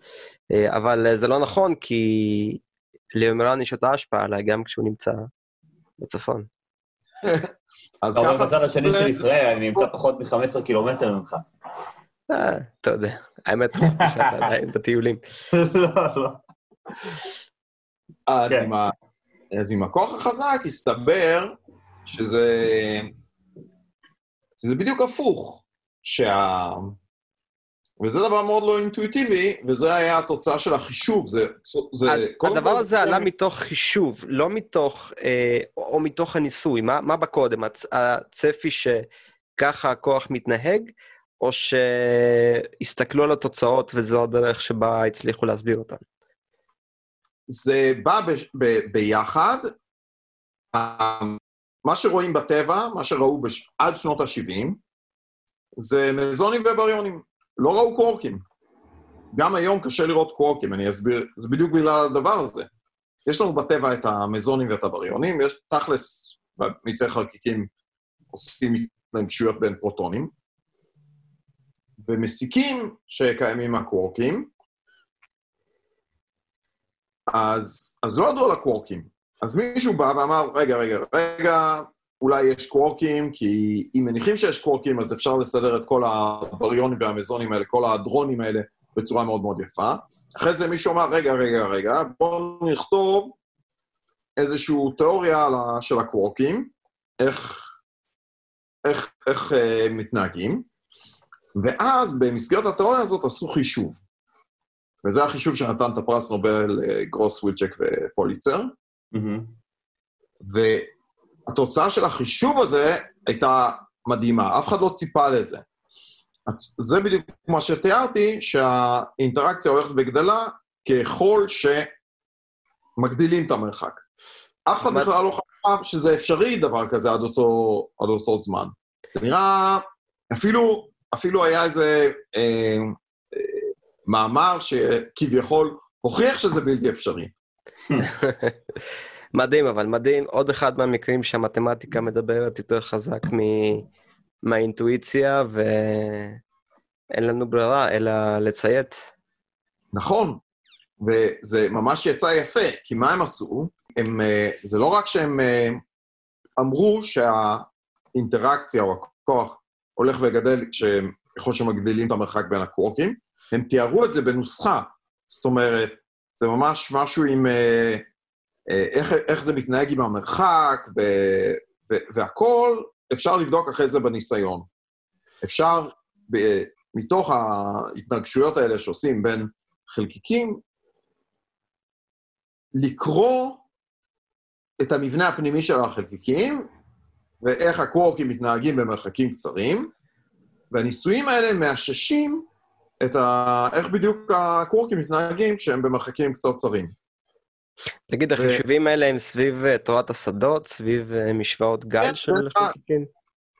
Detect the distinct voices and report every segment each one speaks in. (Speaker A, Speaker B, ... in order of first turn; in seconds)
Speaker A: 0.5-2.6, 3.2-5.3, 6.0-6.5, 12.3-15.2, 32.1-39.1, 39.6-40.9, 41.4-46.0, 138.2-138.5, 139.3-143.9, 144.4-146.4, 147.1-149.0, 198.1-203.1
Speaker B: 7.2-7.5, 8.0-9.2, 18.3-18.9, 19.5-23.1, 24.6-27.0, 28.0-33.3, 47.5-49.7, 50.7-54.8, 55.8-58.5, 59.3-62.7, 63.3-67.7, 68.3-70.3, 72.0-74.5, 77.3-93.3, 94.4-97.7, 98.8-100.7, 101.6-104.0, 105.0-108.7, 110.5-110.9, 111.5-115.7, 116.5-121.9, 123.0-124.0, 124.7-137.3, 149.9-150.4, 151.0-155.8, 156.6-168.1, 168.7-174.7, 175.4-180.6, 182.8-183.6, 184.8-186.7, 187.4-189.9, 190.7-192.5, 193.0-196.9, 198.4-198.6, 202.0-202.8
Speaker C: 8.2-11.5, 13.8-14.1, 15.5-16.4, 109.1-109.5